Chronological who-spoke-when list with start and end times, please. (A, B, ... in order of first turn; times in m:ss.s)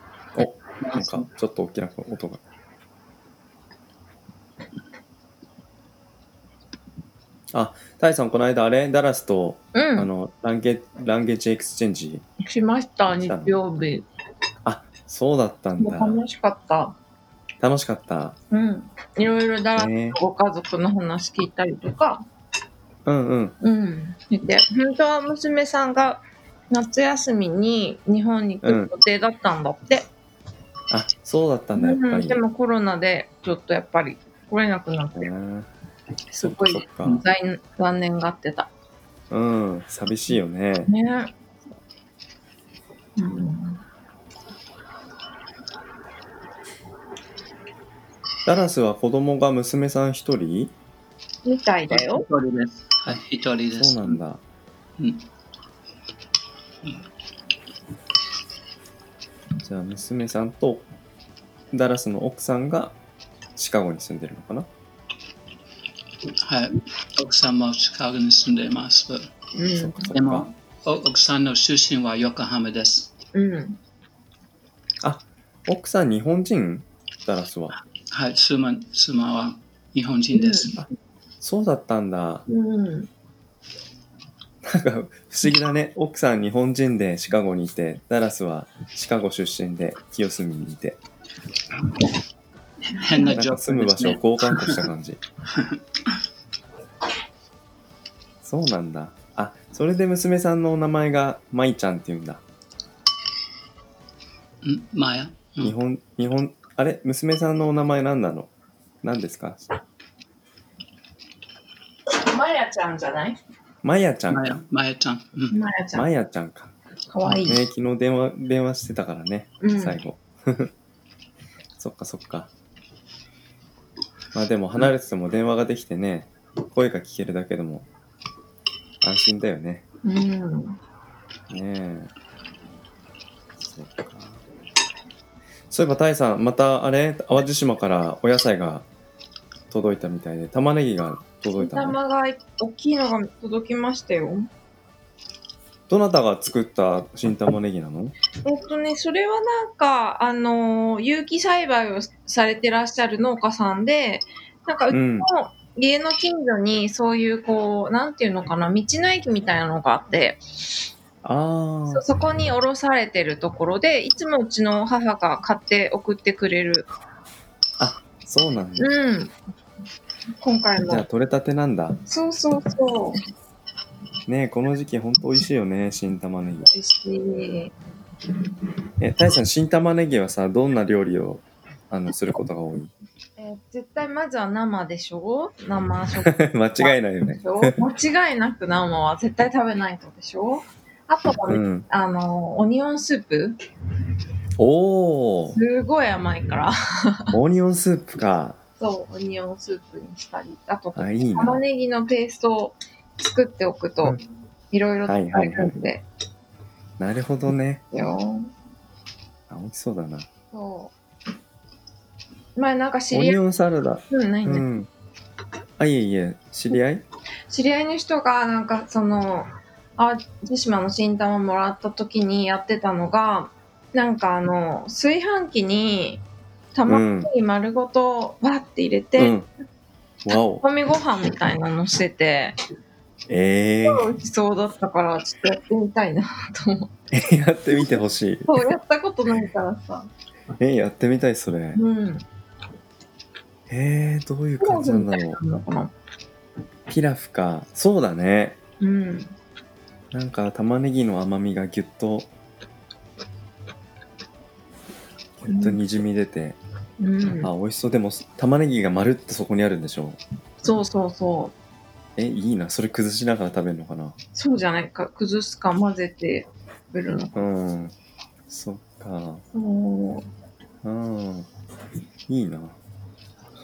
0:00.4-0:02.4 A
0:00.8-0:01.3 B
0:07.5-0:12.2 A
0:09.7-0:10.1 C
0:12.4-0:14.1 C
0:13.2-0:13.6 A
0:14.6-0:16.2 A
0:15.8-0:17.0 C
0:17.6-0:18.4 A
0:18.5-0:22.2 C
0:19.8-0:20.2 A
0:23.0-0:23.6 A
0:23.6-0:30.1 C
0:28.6-0:28.9 A
0:30.9-0:32.4 A
0:31.8-0:35.3 C
0:35.2-0:35.7 A
0:36.3-0:38.7 C
0:36.4-0:37.2 A
0:39.3-0:40.9 A
0:40.9-0:41.3 C
0:43.2-0:43.8 C
0:48.4-0:50.7 A
0:51.4-0:52.3 C
0:51.9-0:54.2 B
0:53.7-0:54.4 A
0:55.0-0:55.2 B
0:59.6-1:00.8 A
1:01.7-1:03.0 A
1:03.6-1:04.7 A
1:06.4-1:09.3 B
1:09.6-1:10.1 C
1:09.7-1:10.5 A
1:10.1-1:13.1 B
1:13.3-1:13.8 C
1:15.0-1:17.7 A
1:18.1-1:20.8 B
1:20.3-1:20.7 C
1:21.4-1:22.4 A
1:22.5-1:23.1 C
1:24.6-1:31.0 A
1:33.0-1:34.8 B
1:33.0-1:33.3 C
1:33.2-1:35.2 A
1:35.5-1:35.8 B
1:38.4-1:42.4 A
1:44.6-1:45.8 B
1:45.6-1:48.5 A
1:49.0-1:49.6 A
1:52.2-1:53.4 C
1:53.8-1:54.6 A
1:54.3-1:55.6 B
1:55.5-1:56.1 C
1:55.9-1:56.7 A
1:57.1-1:57.6 C
1:57.4-2:00.7 A
1:59.6-2:00.0 C
2:01.8-2:02.5 A
2:04.3-2:07.9 A
2:09.0-2:09.8 A
2:10.0-2:10.8 C
2:11.5-2:12.1 A
2:13.6-2:14.4 A
2:15.7-2:18.9 A
2:19.7-2:22.0 A
2:21.6-2:24.5 C
2:25.9-2:28.2 A
2:28.4-2:40.4 C
2:34.9-2:35.3 A
2:41.2-2:42.0 A
2:41.9-2:46.9 C
2:47.8-2:48.9 A
2:48.8-2:49.3 C
2:50.4-2:51.0 C
2:50.9-2:52.0 A
2:52.1-2:53.2 C
2:54.3-2:56.7 A
2:56.6-2:57.8 C
2:59.0-3:02.9 A
3:03.4-3:13.6 C
3:06.2-3:07.8 A
3:11.5-3:11.9 A
3:14.6-3:15.6 A
3:15.5-3:17.3 C
3:17.3-3:18.6 A
3:18.8-3:24.2 C
3:21.0-3:21.6 A
3:24.7-3:26.0 C
3:25.1-3:25.8 A
3:27.0-3:27.8 A
3:27.9-3:28.5 C
3:29.5-3:30.3 A
3:30.5-3:30.9 C
3:32.6-3:33.4 C
3:33.1-3:34.9 A
3:34.1-3:34.7 C
3:35.8-3:37.0 A
3:37.5-3:46.2 C
3:46.8-3:49.4 C
3:46.9-3:47.3 A
3:49.2-3:49.5 A
3:50.2-3:50.6 A
3:50.6-3:52.6 C
3:53.3-3:54.1 A
3:53.8-3:56.9 C
3:57.1-3:58.6 A
3:58.5-4:00.1 C
4:00.6-4:01.8 A
4:01.8-4:02.2 C
4:03.7-4:05.4 A
4:04.6-4:05.9 C
4:06.9-4:08.6 A
4:08.8-4:09.3 C
4:10.1-4:12.3 A
4:15.4-4:16.6 A
4:15.5-4:15.8 C
4:17.0-4:17.5 C
4:17.4-4:20.2 A
4:20.6-4:21.5 C
4:22.2-4:24.2 A
4:24.4-4:27.4 C
4:27.4-4:27.9 A
4:28.5-4:29.4 A
4:29.5-4:30.3 C
4:30.8-4:31.5 A
4:32.3-4:32.8 A